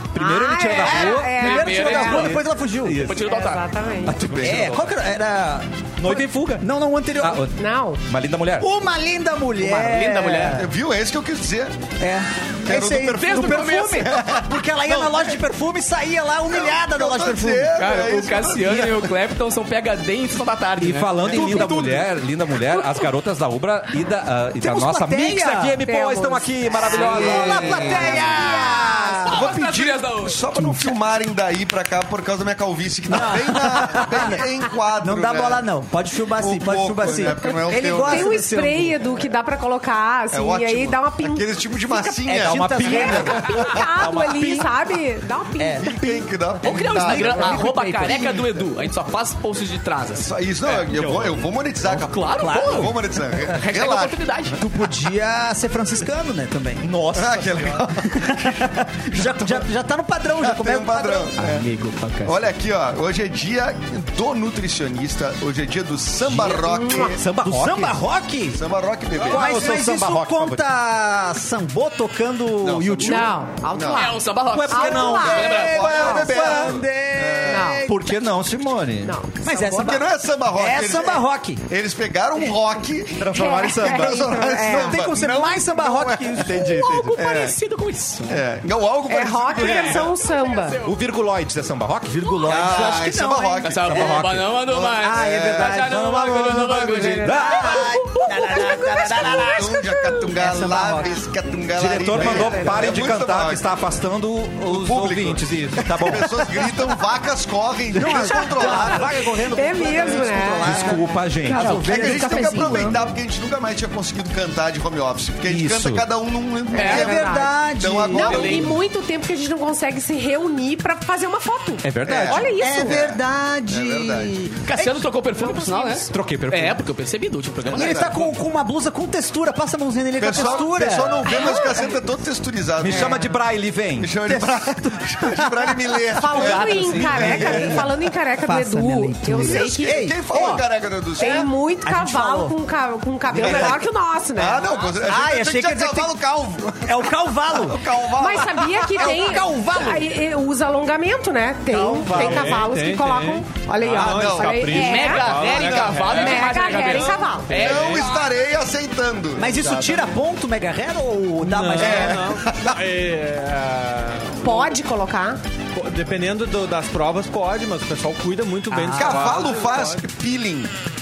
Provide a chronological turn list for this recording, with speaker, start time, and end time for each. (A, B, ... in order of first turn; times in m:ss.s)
0:00.1-0:01.3 A
0:00.2-0:02.3 B
0:00.7-0:03.0 C
0:01.4-0:03.6 D
0:02.0-0:03.2 A
0:03.0-0:04.2 B
0:04.0-0:04.9 A
0:04.3-0:07.4 C
0:06.0-0:06.7 A
0:07.2-0:08.7 A
0:07.6-0:08.0 B
0:08.6-0:10.7 C
0:09.6-0:10.6 D
0:10.5-0:11.7 E
0:12.0-0:17.7 C
0:12.6-0:15.4 E
0:13.2-0:14.1 D
0:16.5-0:19.1 E
0:17.8-0:22.1 D
0:20.8-0:28.2 A
0:21.3-0:21.7 C
0:24.6-0:26.0 C
0:25.8-0:27.5 B
0:26.8-0:29.5 C
0:27.4-0:30.4 D
0:29.3-0:35.6 E
0:30.6-0:30.9 C
0:33.1-0:34.4 C
0:35.0-0:39.0 C
0:36.4-0:38.4 E
0:37.8-0:42.2 B
0:40.3-0:43.6 E
0:42.2-0:43.8 C
0:42.3-0:44.7 A
0:42.8-0:45.9 B
0:45.6-0:48.6 C
0:45.8-0:47.7 E
0:46.6-0:50.3 D
0:50.1-0:54.2 E
0:50.8-0:51.4 A
0:51.9-0:52.9 D
0:52.4-0:52.9 C
0:53.5-0:54.6 D
0:54.6-0:56.8 C
0:56.8-0:57.8 A
0:57.1-0:58.6 E
0:58.0-1:01.4 C
0:59.1-0:59.6 E
1:00.4-1:01.6 E
1:01.4-1:02.3 D
1:02.2-1:07.2 E
1:06.5-1:07.2 B
1:07.2-1:08.0 A
1:07.2-1:08.6 C
1:08.5-1:09.8 E
1:09.2-1:10.6 A
1:09.3-1:13.4 C
1:12.6-1:14.1 E
1:13.0-1:16.3 B
1:13.9-1:16.1 D
1:14.5-1:15.5 A
1:14.9-1:18.4 C
1:15.5-1:17.8 E
1:17.4-1:17.8 B
1:17.9-1:19.2 A
1:19.0-1:20.0 B
1:19.4-1:21.6 C
1:19.7-1:26.5 E
1:23.2-1:24.4 A
1:23.3-1:25.0 B
1:24.0-1:27.0 C
1:26.4-1:27.1 A
1:26.6-1:28.4 D
1:27.1-1:27.6 E
1:28.3-1:30.1 E
1:29.1-1:30.8 B
1:29.6-1:31.0 D
1:30.8-1:33.0 A
1:32.2-1:34.1 C
1:32.2-1:32.6 D
1:32.5-1:35.8 E
1:33.6-1:38.3 D
1:33.9-1:34.5 A
1:35.0-1:41.2 C
1:35.9-1:37.7 A
1:37.3-1:39.6 B
1:39.2-1:43.6 E
1:41.7-1:46.4 A
1:42.1-1:42.8 C
1:44.6-1:49.1 E
1:47.9-1:53.1 C
1:48.0-1:49.0 B
1:49.5-1:52.9 B
1:49.9-1:50.2 E
1:50.6-1:51.9 A
1:51.8-1:58.7 E
1:55.4-1:56.0 A
1:56.7-1:57.5 B
1:56.7-1:57.1 D
1:56.7-1:58.7 C
1:58.1-2:03.0 B
2:01.8-2:02.4 A
2:02.0-2:04.3 E
2:02.6-2:04.6 C
2:04.6-2:08.3 D
2:04.8-2:06.0 B
2:06.1-2:06.8 A
2:07.6-2:08.3 E
2:07.7-2:11.6 C
2:10.2-2:13.3 E
2:10.4-2:10.6 B
2:11.2-2:11.8 B
2:12.8-2:14.2 A
2:14.0-2:17.9 E
2:14.2-2:20.6 C
2:16.1-2:20.6 B
2:19.4-2:21.5 E
2:21.2-2:22.5 C
2:21.2-2:24.7 B
2:23.3-2:23.8 C
2:23.4-2:28.8 E
2:25.0-2:26.2 C
2:26.8-2:27.9 C
2:28.2-2:37.6 B
2:28.8-2:30.1 C
2:31.7-2:32.6 C
2:32.0-2:38.0 F
2:33.9-2:34.7 E
2:34.7-2:38.4 D
2:35.6-2:36.3 E
2:37.5-2:39.5 E
2:39.4-2:42.3 C
2:39.5-2:40.1 F
2:41.4-2:44.7 F
2:41.8-2:42.8 E
2:44.4-2:45.4 B
2:45.7-2:50.0 F
2:48.7-2:49.1 D
2:48.9-2:50.7 E